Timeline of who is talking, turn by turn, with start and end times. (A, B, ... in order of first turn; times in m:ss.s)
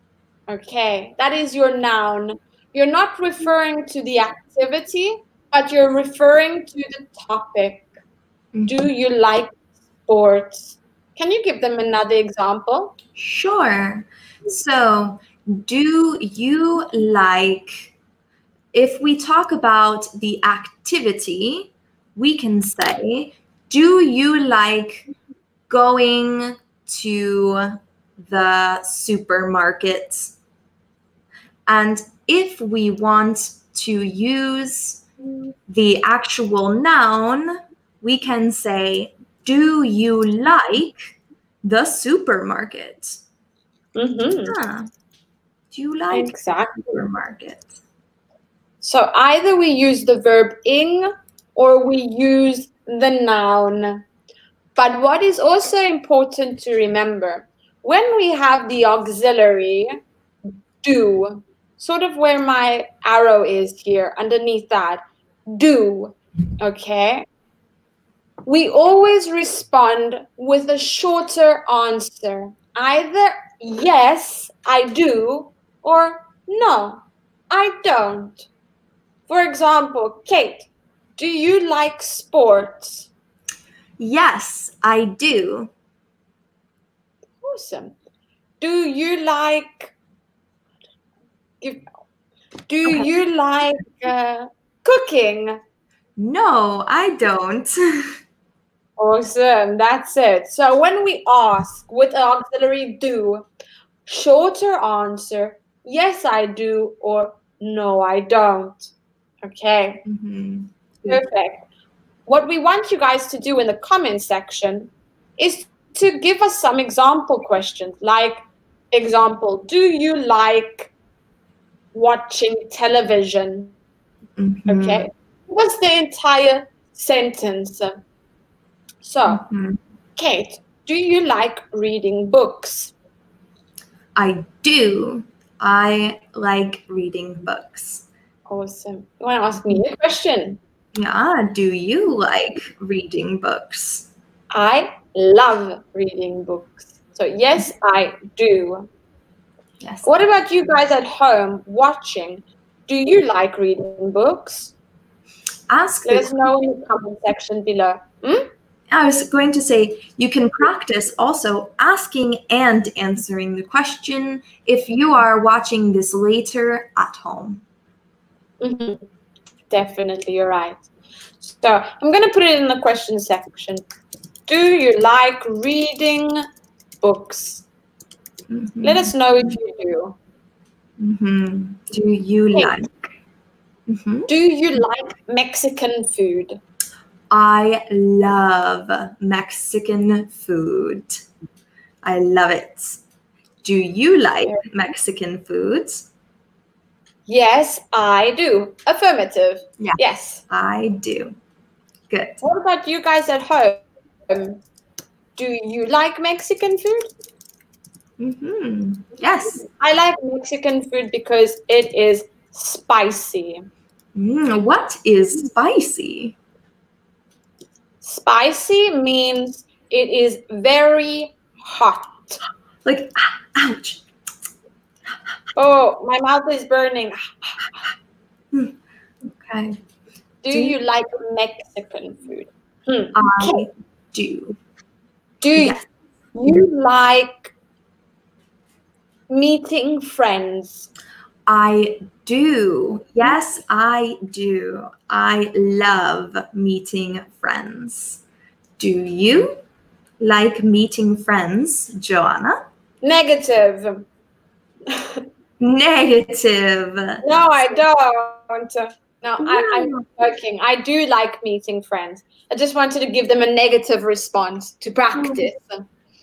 0:00.5-0:07.9 A
0:08.7-0:09.6 A
0:10.1-0:12.9 A
0:13.2-0:17.9 B
0:18.7-0:25.1 B
0:25.7-0:30.3 B
0:31.7-0:35.0 B
0:35.7-0:43.2 B
0:43.9-0:44.6 A
0:44.4-0:44.9 B
0:45.7-0:47.7 B
0:46.1-0:46.9 A
0:48.8-0:54.0 A
0:54.8-1:00.0 A
1:00.8-1:07.2 A
1:08.4-1:18.4 A
1:19.3-1:23.1 A
1:24.0-1:25.7 B
1:27.4-1:28.0 A
1:28.6-1:29.9 A
1:32.7-1:35.6 A
1:36.2-1:38.2 B
1:39.0-1:43.4 A
1:44.0-1:48.9 A
1:49.4-1:50.0 A
1:50.0-1:51.2 B
1:51.1-1:51.7 A
1:52.3-1:58.4 A
1:58.9-2:00.9 A
2:01.9-2:03.7 A
2:04.4-2:05.1 B
2:04.7-2:08.0 A
2:09.0-2:09.4 A
2:09.2-2:09.8 B
2:10.2-2:12.9 A
2:14.2-2:18.0 B
2:18.5-2:20.6 A
2:20.9-2:24.1 B
2:24.5-2:28.9 A
2:29.8-2:30.1 B
2:30.0-2:34.7 A
2:35.7-2:36.4 B
2:36.0-2:38.5 A
2:38.9-2:47.6 B
2:48.6-2:49.0 A
2:49.7-2:50.8 A
2:51.4-2:53.8 A
2:54.5-2:56.4 A
2:57.0-2:57.6 A
2:58.5-2:59.1 B
2:58.8-3:00.2 A
3:01.0-3:03.1 B
3:03.9-3:04.3 B
3:04.3-3:06.6 A
3:07.3-3:11.2 B
3:12.0-3:13.0 B
3:13.6-3:16.1 B
3:17.3-3:20.4 A
3:19.8-3:21.3 B
3:22.1-3:22.4 B
3:22.4-3:24.6 A
3:25.4-3:27.1 A
3:28.2-3:29.6 B
3:29.6-3:33.6 A
3:34.1-3:36.4 B
3:38.0-3:42.4 A
3:42.8-3:44.0 B
3:45.5-3:47.8 A
3:49.3-3:49.8 B
3:50.4-3:53.6 A
3:50.5-3:50.8 B
3:53.1-3:54.6 B
3:55.4-3:55.8 A
3:55.5-3:55.8 B
3:56.3-3:57.5 A
3:59.3-4:00.9 A
4:01.5-4:08.2 B
4:08.8-4:09.6 B
4:10.2-4:12.6 B
4:13.0-4:14.1 A
4:14.9-4:15.2 A
4:15.6-4:17.2 B
4:17.2-4:25.9 A
4:19.4-4:20.0 B
4:25.1-4:25.5 B